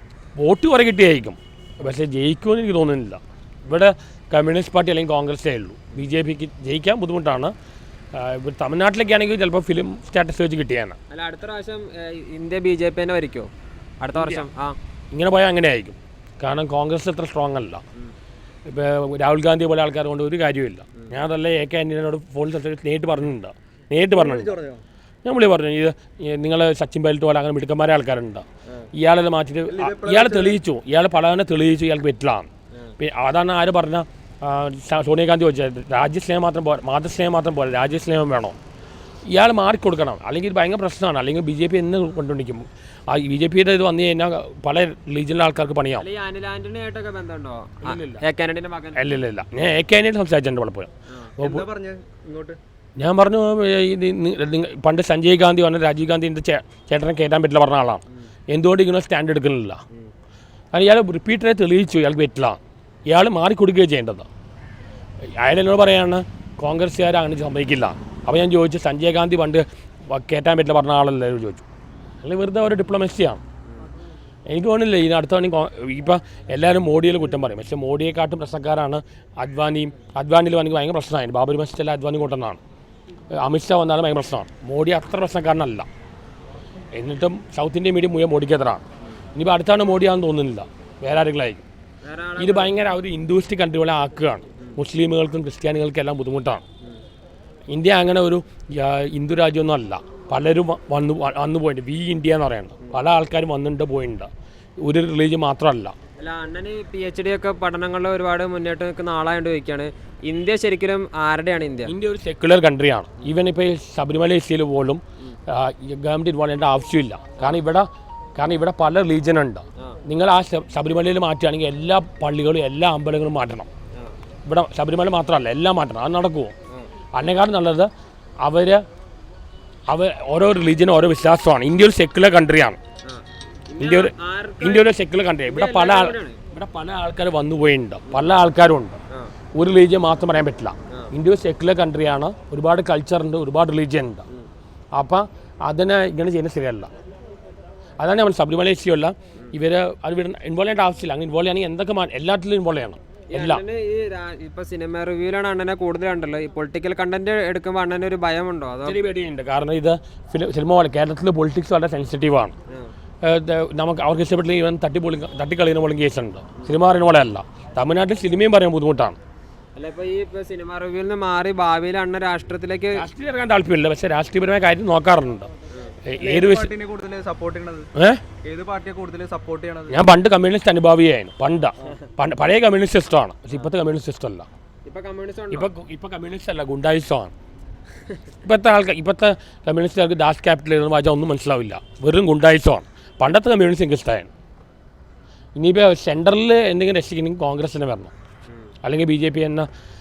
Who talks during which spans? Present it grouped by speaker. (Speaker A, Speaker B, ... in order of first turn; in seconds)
Speaker A: 0.3-7.5, 8.1-11.0, 14.1-14.5, 15.1-17.8, 18.6-24.5, 25.2-38.6, 39.3-46.1, 47.8-48.2, 48.9-51.6, 53.0-59.8, 60.7-64.3, 65.2-71.6, 72.2-73.4, 74.5-82.6, 83.3-85.9, 86.9-88.8, 89.3-91.7, 92.4-96.6, 97.7-104.3, 104.8-106.0, 111.9-123.7, 124.4-126.5, 127.1-127.9, 128.4-128.8, 129.9-132.8, 133.8-139.0, 139.6-144.2, 144.9-146.9, 148.0-153.6, 158.8-162.6, 163.2-169.2, 172.9-175.5, 176.1-176.7, 177.9-178.2, 179.9-184.5, 185.5-187.3, 188.4-194.3, 195.6-198.1, 198.8-199.7
Speaker B: 11.1-13.5, 14.0-14.8, 46.0-49.2, 52.3-52.6, 92.0-92.8, 106.2-112.0, 133.1-134.9, 135.5-136.4, 153.3-159.0, 169.8-173.1, 184.8-185.7
Speaker C: 24.1-24.8, 29.7-30.6, 51.4-52.2, 176.2-177.9, 178.4-180.0